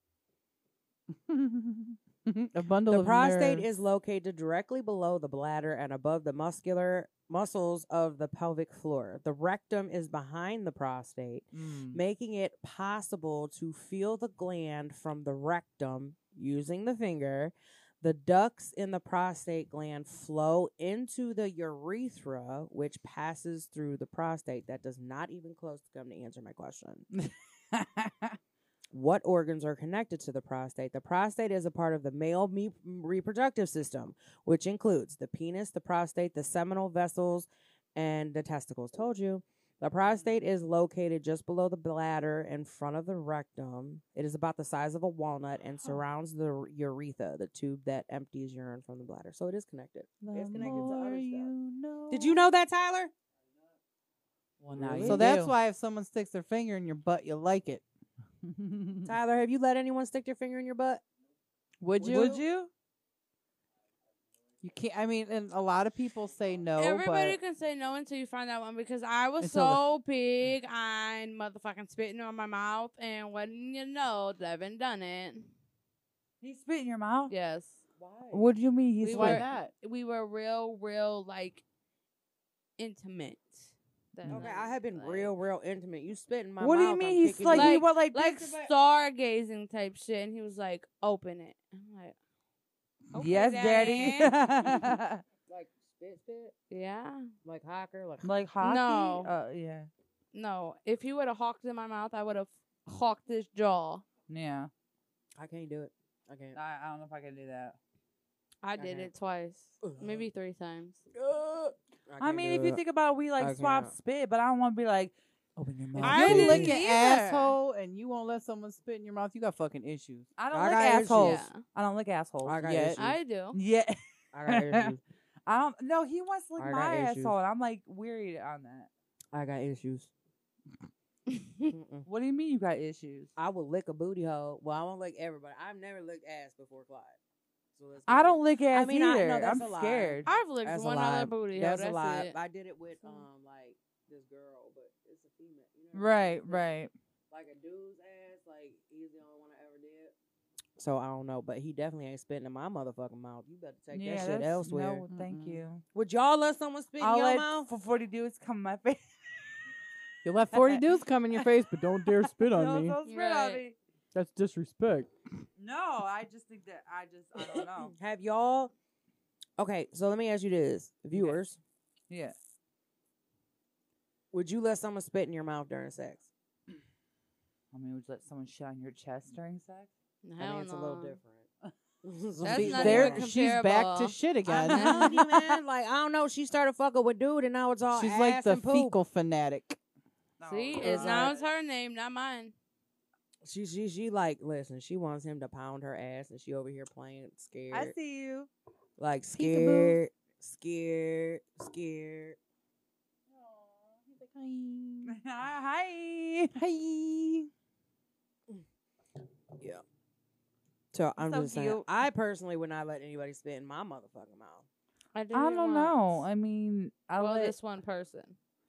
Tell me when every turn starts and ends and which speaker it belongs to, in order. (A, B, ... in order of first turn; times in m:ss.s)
0:01.1-0:03.7 A
0:02.9-0:27.1 B
0:11.5-0:12.0 C
0:27.2-0:28.4 C
0:28.9-0:51.5 B
0:50.2-0:52.4 C
0:50.5-0:51.0 A
0:52.1-0:53.1 B
0:54.6-0:55.6 C
0:54.8-0:55.4 B
0:54.8-0:57.8 A
0:58.5-0:59.2 C
0:59.0-1:01.0 B
1:01.8-1:02.5 A
1:02.0-1:02.4 B
1:02.0-1:02.7 C
1:04.6-1:07.4 A
1:06.8-1:15.5 D
1:09.4-1:09.8 A
1:16.4-1:17.3 C
1:17.3-1:17.8 D
1:18.0-1:18.5 B
1:18.3-1:19.4 C
1:19.0-1:21.6 D
1:19.1-1:19.7 A
1:22.8-1:25.3 D
1:24.2-1:24.5 C
1:24.3-1:27.8 B
1:26.6-1:28.7 C
1:27.5-1:32.2 D
1:33.1-1:34.7 D
1:33.1-1:35.2 C
1:35.5-1:36.5 B
1:36.7-1:37.3 D
1:37.4-1:38.3 B
1:38.2-1:39.9 C
1:38.6-1:39.3 D
1:40.3-1:44.0 D
1:44.3-1:44.7 C
1:45.4-1:46.6 B
1:46.6-1:47.8 C
1:48.6-1:51.0 D
1:48.8-1:49.1 B
1:49.8-1:50.3 B
1:51.2-1:52.8 B
1:52.2-1:56.8 C
1:53.4-1:54.0 B
1:56.0-2:00.3 A
1:56.0-1:57.6 D
2:00.4-2:02.7 C
2:00.5-2:01.5 B
2:01.1-2:01.6 D
2:02.4-2:03.2 B
2:02.6-2:03.0 A
2:03.0-2:03.6 D
2:03.5-2:04.9 C
2:04.3-2:05.0 B
2:05.5-2:08.9 C
2:06.6-2:07.4 B
2:09.3-2:10.1 B
2:11.3-2:11.7 D
2:11.7-2:12.1 B
2:12.1-2:13.3 C
2:13.4-2:17.2 B
2:17.8-2:26.6 B
2:18.1-2:20.3 C
2:20.3-2:22.3 D
2:25.9-2:26.9 C
2:27.3-2:30.1 B
2:30.8-2:35.1 B
2:33.9-2:35.8 C
2:35.1-2:35.6 A
2:35.9-2:37.7 B
2:37.0-2:39.0 C
2:40.2-2:43.0 A
2:40.5-2:43.8 C
2:43.0-2:43.6 D
2:44.1-2:45.1 A
2:45.6-2:48.0 C
2:47.4-2:48.7 B
2:49.6-2:51.6 B
2:52.1-2:52.4 C
2:54.3-2:56.3 B
2:57.7-2:59.9 C
3:00.2-3:01.2 D
3:00.4-3:01.5 B
3:02.0-3:03.3 B
3:02.4-3:04.2 D
3:02.5-3:05.4 A
3:04.5-3:09.0 B
3:04.7-3:05.2 D
3:07.9-3:09.8 A
3:10.4-3:11.5 C
3:10.5-3:12.5 D
3:10.8-3:11.4 B
3:13.4-3:18.0 B
3:17.7-3:18.5 C
3:19.0-3:22.4 B
3:19.4-3:20.0 A
3:23.3-3:25.2 A
3:25.0-3:26.6 C
3:26.6-3:27.5 A
3:30.9-3:34.7 B
3:31.2-3:31.9 C
3:35.1-3:36.2 D
3:35.3-3:37.6 C
3:37.2-3:38.4 D